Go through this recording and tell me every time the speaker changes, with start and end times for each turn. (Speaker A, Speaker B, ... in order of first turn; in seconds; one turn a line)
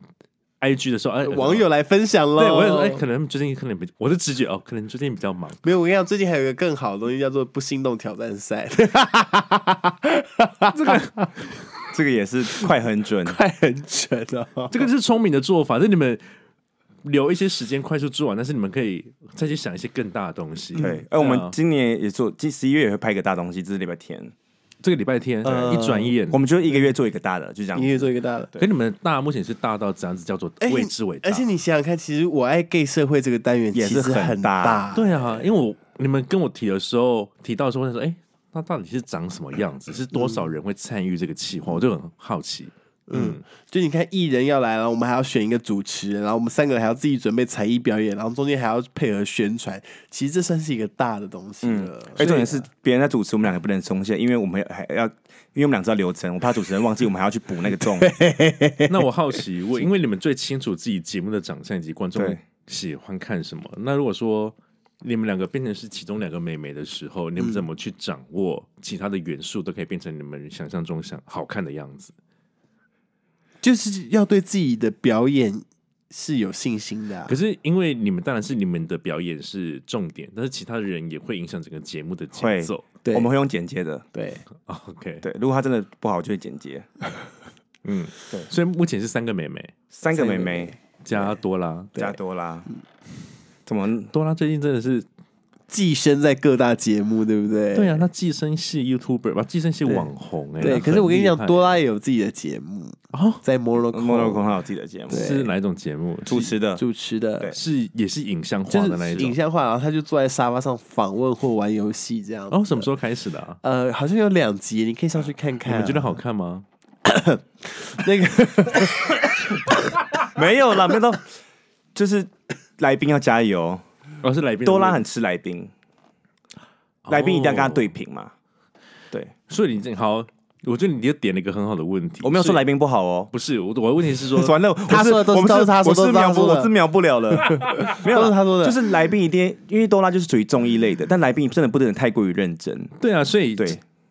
Speaker A: 0.6-1.7
Speaker B: 1.2-3.0
Speaker A: 2.4-5.6
Speaker B: 5.6-11.3
Speaker C: 11.9-13.4
Speaker B: 13.2-14.9
Speaker A: 14.7-16.2
Speaker A: 17.0-21.6
Speaker B: 20.8-21.0
Speaker C: 20.8-24.4
Speaker A: 24.8-26.4
Speaker B: 25.4-26.1
Speaker C: 25.5-25.8
Speaker C: 26.3-28.7
Speaker B: 27.7-28.5
Speaker A: 28.6-31.5
Speaker B: 30.6-35.4
Speaker C: 33.7-34.9
Speaker A: 34.9-43.4
Speaker B: 40.1-40.5
Speaker B: 43.1-52.7
Speaker C: 51.6-58.1
Speaker B: 57.7-59.0
Speaker A: 58.9-72.1
Speaker B: 67.4-67.7
Speaker B: 73.6-77.3
Speaker A: 77.3-82.9
Speaker C: 82.3-84.1
Speaker B: 83.0-83.3
Speaker B: 84.1-84.4
Speaker A: 84.6-85.3
Speaker C: 85.2-86.9
Speaker A: 87.8-89.8
Speaker C: 89.9-90.8
Speaker B: 90.1-90.8
Speaker A: 91.0-91.9
Speaker C: 92.0-92.7
Speaker C: 93.7-94.1
Speaker A: 94.1-95.1
Speaker B: 95.7-98.1
Speaker A: 97.8-101.8
Speaker B: 100.6-104.5
Speaker A: 103.1-103.4
Speaker C: 103.9-105.3
Speaker B: 105.1-105.5
Speaker A: 105.1-106.5
Speaker C: 106.3-106.8
Speaker B: 106.8-107.5
Speaker A: 107.5-109.4
Speaker B: 108.7-112.9
Speaker A: 112.5-113.6
Speaker B: 113.6-116.2
Speaker A: 115.7-116.7
Speaker B: 117.0-119.6
Speaker C: 120.2-121.3
Speaker C: 122.0-123.8
Speaker A: 124.2-125.0
Speaker C: 124.7-125.7
Speaker A: 127.0-127.9
Speaker C: 127.1-128.3
Speaker A: 129.5-132.6
Speaker C: 132.2-133.3
Speaker A: 133.3-134.6
Speaker C: 134.2-142.9
Speaker B: 134.9-136.7
Speaker B: 137.5-138.8
Speaker A: 143.0-143.8